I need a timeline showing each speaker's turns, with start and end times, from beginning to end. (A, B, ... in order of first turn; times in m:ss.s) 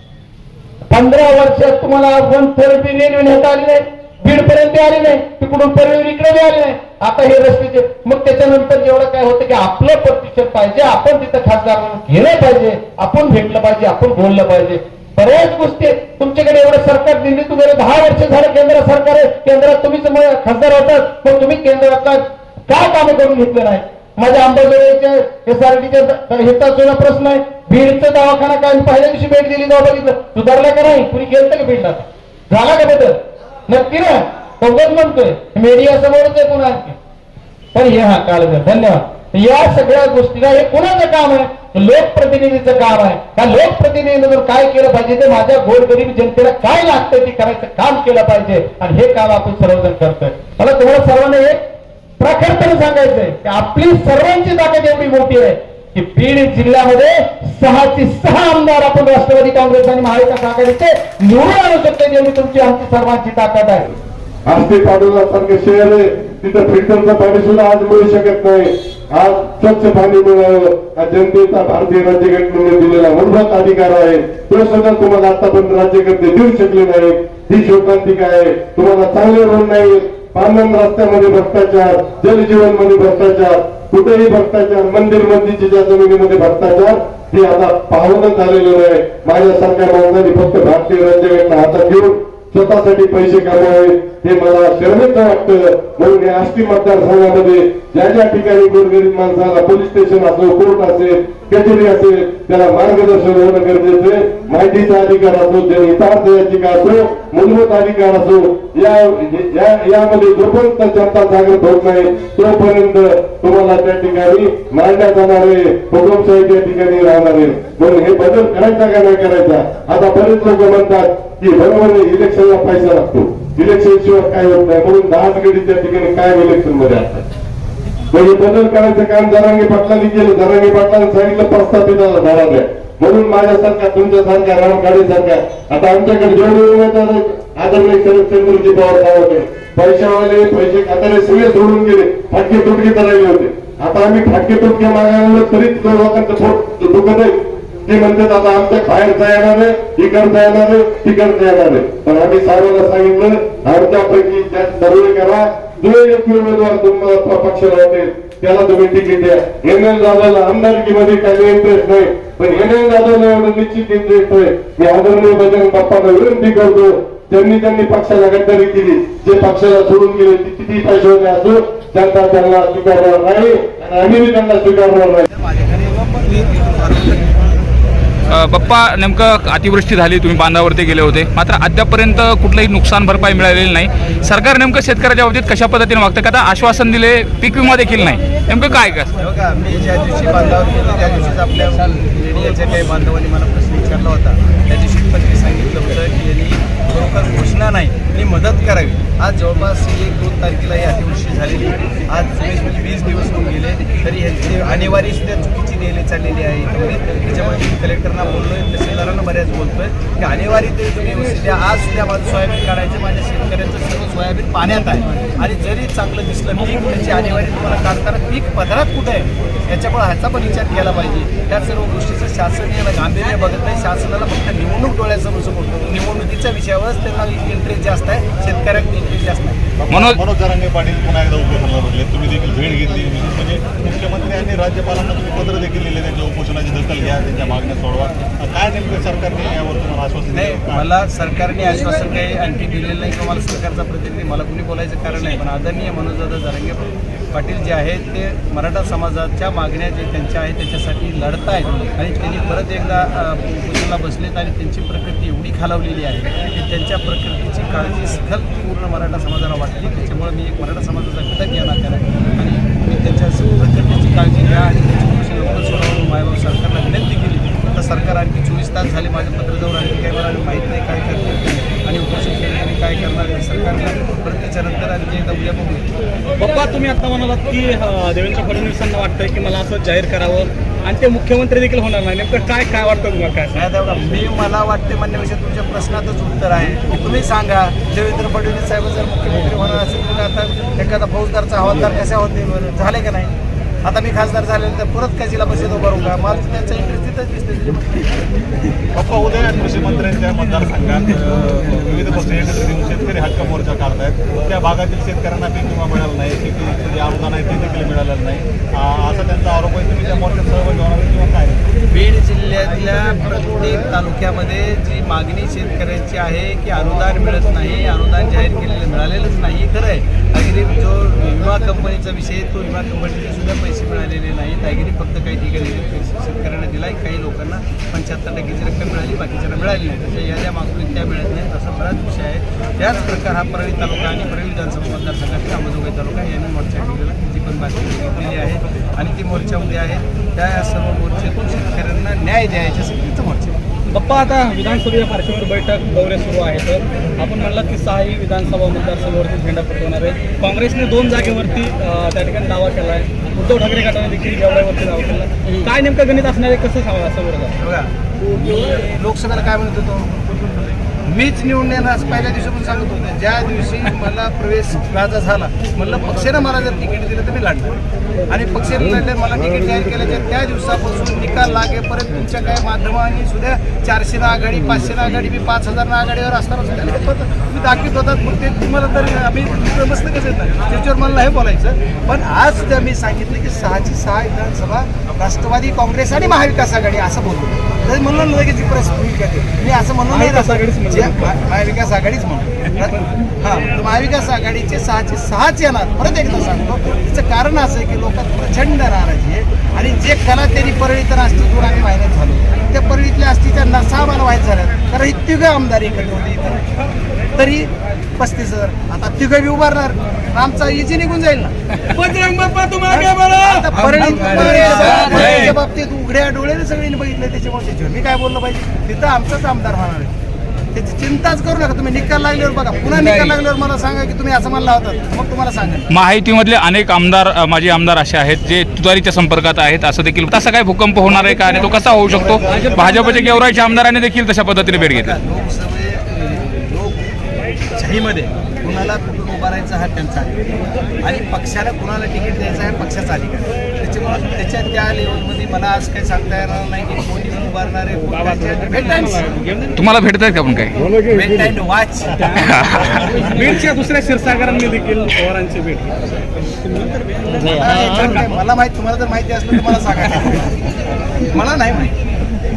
0:00.9-0:37.0 A
0:37.7-0:51.6 A
0:52.2-1:03.9 A
1:04.5-2:07.2 B
2:08.1-2:55.3 B
2:55.3-2:57.4 C
2:58.3-3:09.1 D
3:09.2-3:49.6 C
3:49.8-4:00.9 E
3:49.9-3:50.2 D
4:00.3-4:35.9 C
4:36.4-4:43.6 F
4:43.5-4:57.9 C
4:58.9-5:11.7 E
5:11.9-5:43.6 C
5:43.9-5:57.5 F
5:57.6-6:00.2 C
6:01.0-6:46.6 C
6:30.1-6:31.4 F
6:32.8-6:33.1 F
6:47.3-7:00.1 C
6:52.4-6:55.5 F
6:55.0-6:55.6 D
7:00.7-7:05.9 C
7:02.9-7:03.3 D
7:05.9-7:15.2 D
7:11.3-7:13.8 C
7:12.5-7:13.3 F
7:14.8-7:17.0 C
7:17.8-7:20.5 C
7:21.0-7:29.6 C
7:29.8-7:30.7 D
7:31.0-7:33.5 C
7:32.3-7:33.2 D
7:33.0-7:36.0 F
7:36.6-7:38.2 F
7:37.4-7:40.7 C
7:41.3-7:41.9 C